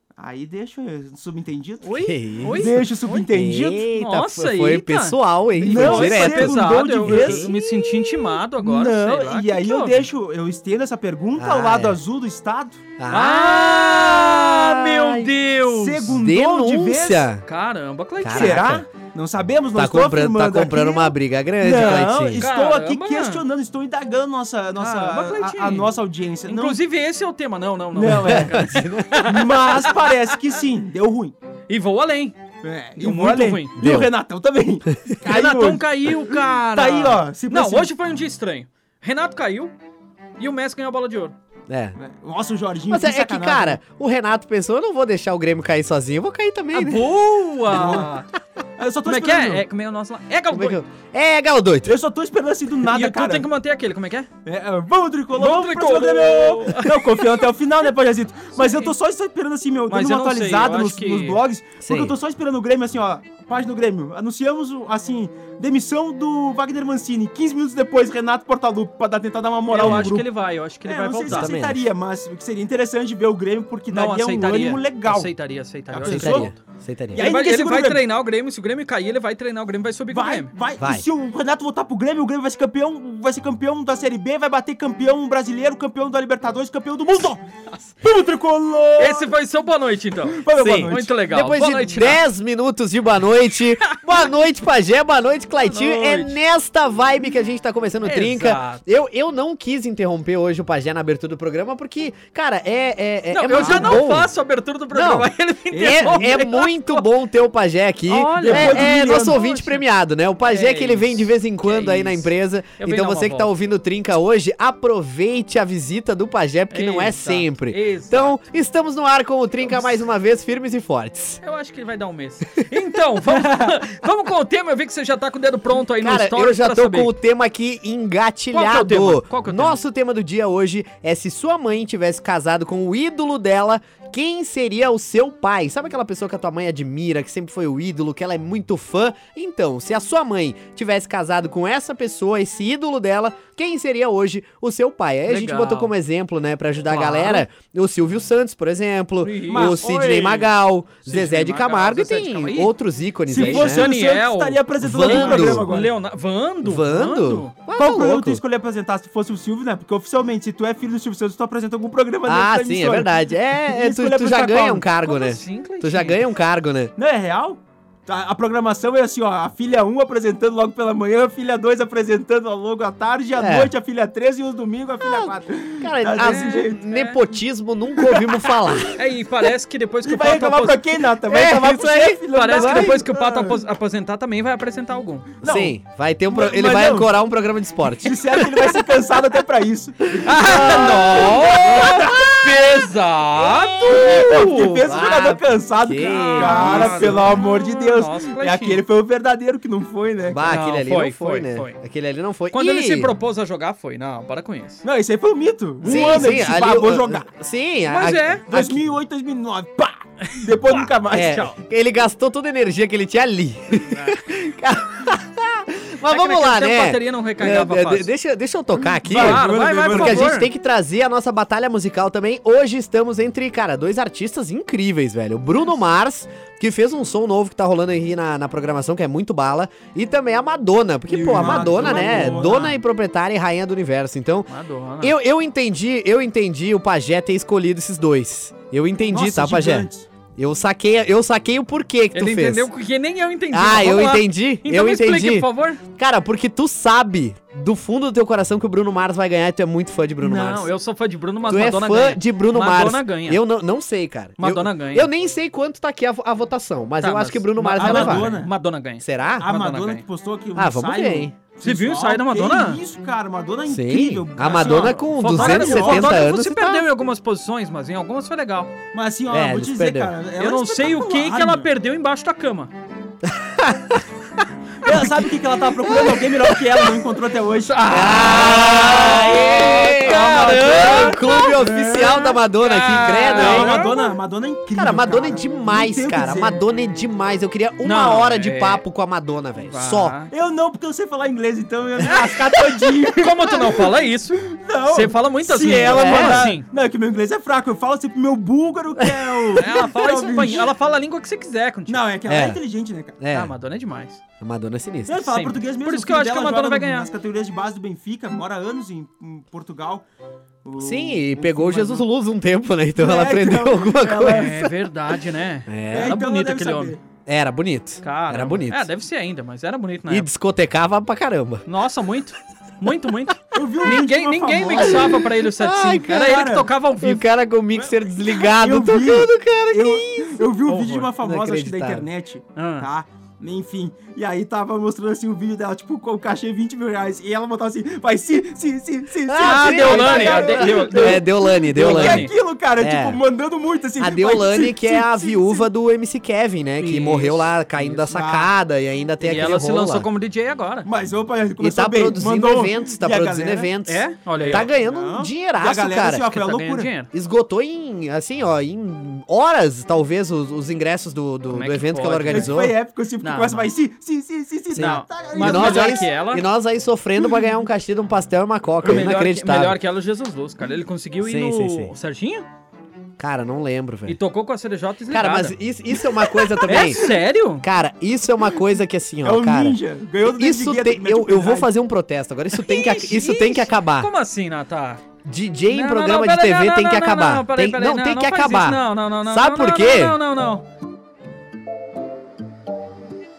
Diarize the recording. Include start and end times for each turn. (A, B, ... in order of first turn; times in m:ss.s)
0:00.2-0:03.9 A
0:01.8-0:03.3 B
0:01.9-0:02.8 C
0:03.3-0:07.5 C
0:03.9-0:10.0 B
0:05.6-0:12.8 A
0:11.4-0:12.0 C
0:13.0-0:14.5 C
0:13.1-0:16.1 B
0:13.7-0:17.3 A
0:16.1-0:17.4 C
0:17.4-0:18.6 B
0:18.2-0:18.8 C
0:18.3-0:26.8 A
0:19.7-0:22.4 C
0:21.7-0:23.4 B
0:24.8-0:25.9 B
0:26.5-0:30.4 B
0:27.9-0:31.3 A
0:28.2-0:29.2 C
0:31.7-0:32.4 B
0:32.6-0:37.9 A
0:33.0-0:33.7 B
0:33.8-0:34.1 C
0:35.2-0:39.7 B
0:40.4-0:41.3 B
0:41.7-0:42.0 C
0:42.0-0:43.8 A
0:42.9-0:47.1 C
0:46.7-0:48.3 B
0:47.7-0:48.1 A
0:48.8-0:49.6 A
0:49.0-0:50.8 B
0:50.5-0:52.0 C
0:51.8-0:53.5 A
0:52.9-0:54.3 B
0:54.4-1:10.3 A
0:55.4-0:57.4 B
0:58.6-0:58.9 B
0:59.9-1:01.4 B
1:01.8-1:02.1 C
1:09.7-1:11.5 B
1:09.8-1:10.1 C
1:10.8-1:15.3 A
1:11.2-1:11.8 C
1:13.9-1:16.5 B
1:15.9-1:16.5 A
1:16.0-1:17.3 C
1:17.1-1:18.0 A
1:17.1-1:20.5 B
1:20.1-1:27.4 A
1:20.8-1:21.1 C
1:28.0-1:29.3 A
1:29.0-1:32.2 B
1:30.3-1:31.1 A
1:30.6-1:44.3 C
1:35.6-1:36.4 B
1:38.0-1:38.8 B
1:43.3-1:47.0 B
1:43.6-1:44.0 A
1:44.9-2:01.4 C
1:45.7-1:46.7 A
1:48.1-1:49.8 B
1:48.4-1:49.4 A
1:50.4-1:53.5 B
1:56.7-1:58.4 B
2:01.4-2:07.1 B
2:06.0-2:33.9 C
2:08.5-2:09.8 B
2:25.3-2:25.9 B
2:26.9-2:27.4 B
2:29.2-2:30.2 B
2:29.5-2:30.5 A
2:31.0-2:32.7 B
2:33.3-2:35.9 A
2:33.3-2:37.5 B
2:34.8-2:35.9 C
2:36.6-2:38.4 C
2:37.7-2:44.8 A
2:42.2-2:46.9 C
2:45.0-2:46.2 B
2:47.0-2:56.8 A
2:53.4-2:53.7 C
2:55.0-2:59.0 C
2:56.2-2:57.2 B
2:58.0-2:58.3 A
2:58.9-3:00.8 B
3:00.0-3:03.5 A
3:01.3-3:03.0 C
3:02.3-3:05.4 B
3:05.4-3:07.1 A
3:05.4-3:08.4 C
3:08.0-3:12.3 A
3:10.2-3:15.1 B
3:10.4-3:12.5 C
3:13.8-3:20.4 A
3:14.8-3:17.3 C
3:16.0-3:18.8 B
3:20.3-3:23.1 C
3:20.4-3:21.8 B
3:22.5-3:24.8 B
3:24.8-3:27.3 A
3:25.8-3:26.4 B
3:25.8-3:28.8 C
3:27.9-3:28.4 B
3:28.5-3:31.4 A
3:30.3-3:31.6 B
3:31.1-3:54.5 C
3:33.8-3:34.2 B
3:36.1-3:38.1 B
3:38.9-3:40.3 A
3:39.0-3:40.5 B
3:51.1-3:52.7 A
3:51.2-3:52.7 B
3:54.5-3:55.2 B
3:55.0-4:02.7 C
3:59.1-4:00.1 A
4:02.1-4:05.8 B
4:03.5-4:10.7 C
4:10.2-4:13.4 B
4:11.5-4:18.3 C
4:14.4-4:15.1 B
4:17.0-4:20.0 B
4:17.8-4:18.5 A
4:19.0-4:19.5 C
4:19.4-4:26.2 A
4:20.6-4:21.3 C
4:21.6-4:22.8 B
4:23.6-4:26.8 C
4:24.4-4:28.7 B
4:28.9-4:31.7 A
4:29.3-4:30.1 C
4:30.4-4:32.7 B
4:33.2-4:34.0 C
4:34.8-4:39.2 A
4:35.9-4:36.2 C
4:37.7-4:44.1 B
4:37.9-4:43.8 C
4:39.8-4:42.1 A
4:43.3-4:46.6 A
4:44.7-4:50.2 C
4:47.8-4:48.8 B
4:49.6-4:50.3 B
4:50.3-4:53.8 A
4:53.2-4:56.7 B
4:54.5-5:00.7 A
4:55.9-4:56.5 C
4:59.6-5:02.0 B
5:01.9-5:03.2 A
5:02.2-5:02.6 C
5:03.2-5:03.5 C
5:03.3-5:04.2 B
5:04.4-5:05.2 C
5:05.0-5:10.0 A
5:05.2-5:07.1 B
5:10.6-5:12.0 A
5:10.8-5:14.7 C
5:13.0-5:14.6 A
5:14.2-5:16.9 B
5:15.7-5:16.2 C
5:15.9-5:17.0 A
5:17.3-5:18.9 C
5:18.0-5:20.3 B
5:20.1-5:21.6 C
5:21.7-5:27.2 B
5:23.5-5:25.3 A
5:24.8-5:26.4 C
5:26.1-5:26.7 A
5:27.0-5:30.6 C
5:27.8-5:45.7 A
5:30.6-5:31.1 B
5:31.2-5:32.1 C
5:32.6-5:32.9 B
5:39.2-5:43.2 C
5:39.4-5:42.3 B
5:44.0-5:50.1 C
5:46.8-5:48.0 B
5:48.1-5:48.5 A
5:49.2-5:50.9 B
5:50.8-5:53.7 A
5:51.6-5:56.3 C
5:53.8-5:54.7 B
5:54.4-5:56.9 A
5:56.2-5:57.1 B
5:57.1-6:02.7 C
6:01.5-6:02.6 B
6:02.3-6:06.2 A
6:03.2-6:03.7 B
6:04.7-6:06.5 B
6:04.7-6:09.8 C
6:08.8-6:12.4 B
6:11.2-6:11.9 C
6:13.2-6:14.2 C
6:14.1-6:15.6 B
6:15.1-6:24.1 C
6:16.6-6:17.6 B
6:19.2-6:21.7 A
6:22.5-6:25.0 B
6:25.2-6:30.2 C
6:25.7-6:30.6 B